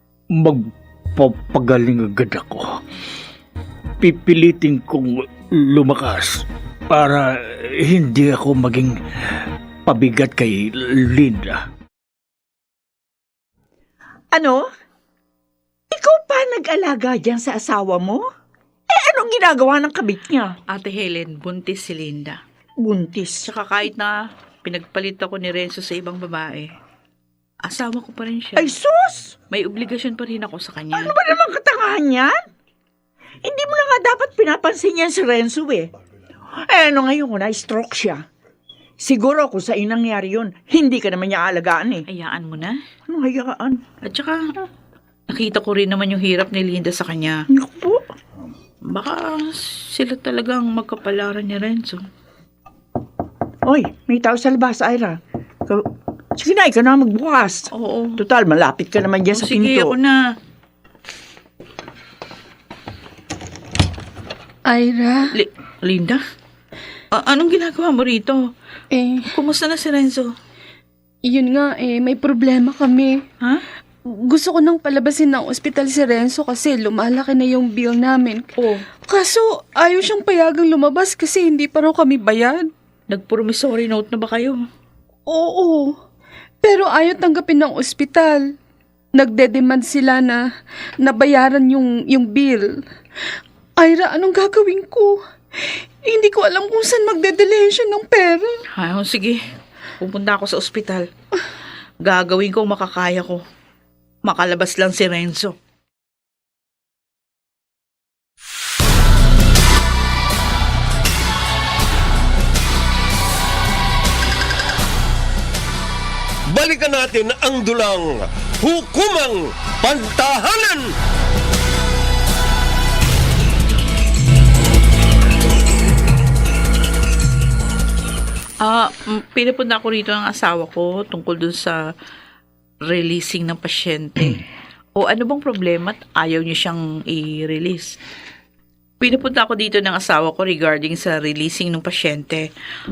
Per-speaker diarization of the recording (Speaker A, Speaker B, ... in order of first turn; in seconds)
Speaker A: 0.3-2.8, 4.0-11.6
Speaker B: 14.3-14.7, 15.9-18.2, 18.9-20.6, 22.8-23.5, 28.6-29.3, 30.9-32.4, 33.4-35.9, 36.6-38.2, 39.0-42.0, 43.1-43.8, 47.5-48.1, 53.7-59.9
Speaker C: 20.7-22.4, 23.4-26.7, 27.6-28.7, 29.5-31.2, 42.1-42.8, 44.0-44.5, 45.3-47.4, 48.9-52.0, 57.7-58.2, 59.3-60.2, 65.3-66.2, 67.1-68.5, 69.3-70.3, 78.6-78.8, 83.1-84.6, 98.8-99.4, 100.0-101.1, 102.0-103.4, 104.2-105.5, 128.6-131.8, 132.9-134.4, 135.0-138.0, 139.0-142.5
Speaker D: 64.7-65.3, 68.9-69.3, 71.3-73.2, 74.1-78.5, 79.1-82.7, 85.3-86.0, 86.6-88.5, 89.2-90.5, 91.0-92.8, 93.8-95.2, 96.0-98.6
Speaker E: 116.5-120.9